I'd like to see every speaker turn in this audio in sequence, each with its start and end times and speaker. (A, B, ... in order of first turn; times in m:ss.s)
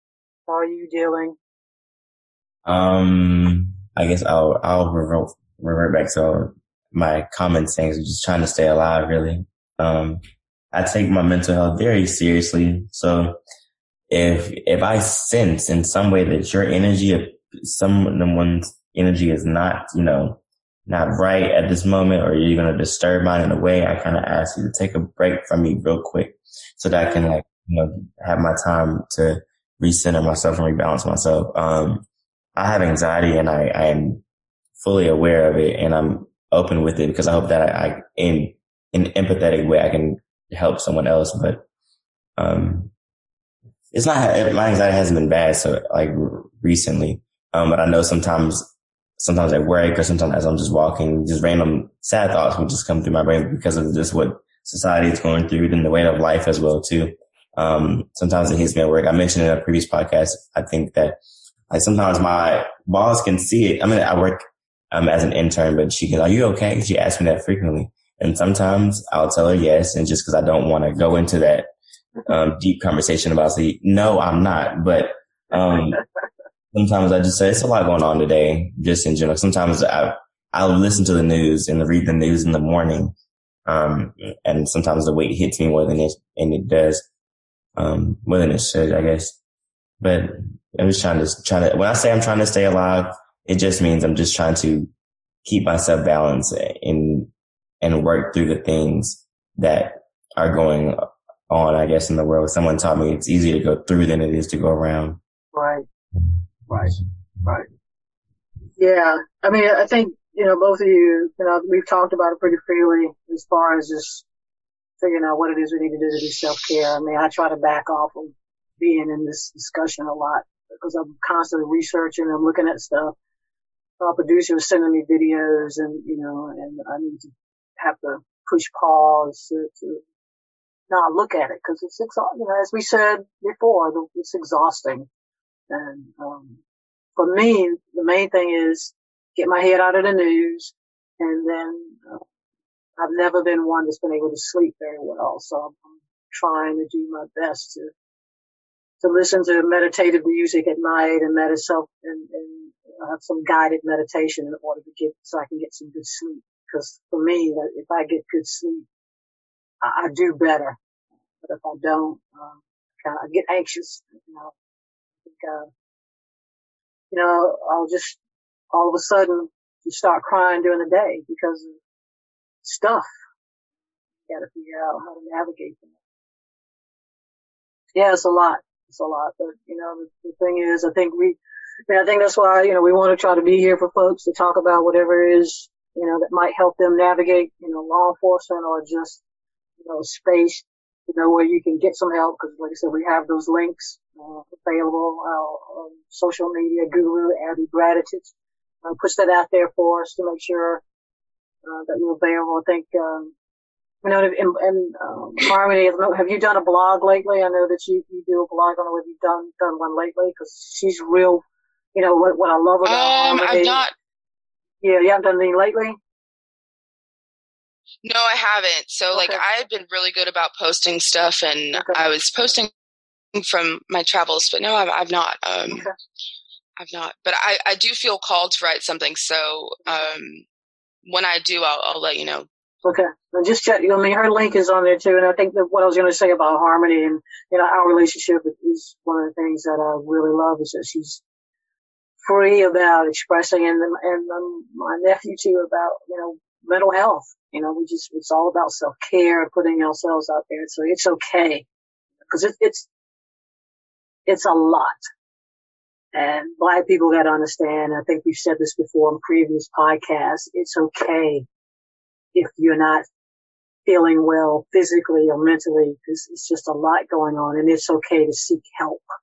0:00.5-0:01.4 A
0:02.6-0:13.4 B
0:14.1-0:34.2 B
0:27.0-0:27.4 A
0:34.8-0:41.6 B
0:42.4-0:42.9 B
0:43.9-1:01.2 B
1:01.7-1:11.7 B
1:12.3-1:16.0 B
1:16.7-1:23.1 B
1:23.6-1:27.0 B
1:27.8-1:29.4 B
1:30.0-1:34.9 B
1:35.4-1:37.3 B
1:37.8-1:45.2 B
1:45.5-1:45.8 A
1:46.7-1:47.7 A
1:48.8-1:54.2 A
1:55.0-2:03.1 A
2:04.0-2:10.0 A
2:10.9-2:15.1 A
2:15.7-2:16.6 A
2:17.2-2:22.2 A
2:23.0-2:27.9 A
2:29.0-2:38.8 A
2:39.8-2:40.8 A
2:41.4-2:44.5 A
2:45.2-2:45.7 A
2:47.1-2:48.2 A
2:48.7-2:51.8 A
2:52.6-2:53.1 A
2:54.3-2:56.0 A
2:57.9-3:09.2 A
3:09.8-3:18.3 A
3:18.8-3:20.8 A
3:21.6-3:23.3 A
3:24.0-3:33.8 A
3:32.8-3:33.9 C
3:34.8-3:36.0 A
3:38.0-3:42.7 C
3:39.1-3:39.4 A
3:41.7-3:42.5 A
3:43.3-3:45.8 C
3:46.8-3:50.4 C
3:51.0-3:52.5 C
3:52.8-4:01.2 A
4:02.2-4:11.6 A
4:12.3-4:12.9 A
4:14.3-4:15.1 A
4:16.1-4:21.4 A
4:22.3-4:23.0 A
4:23.8-4:29.0 A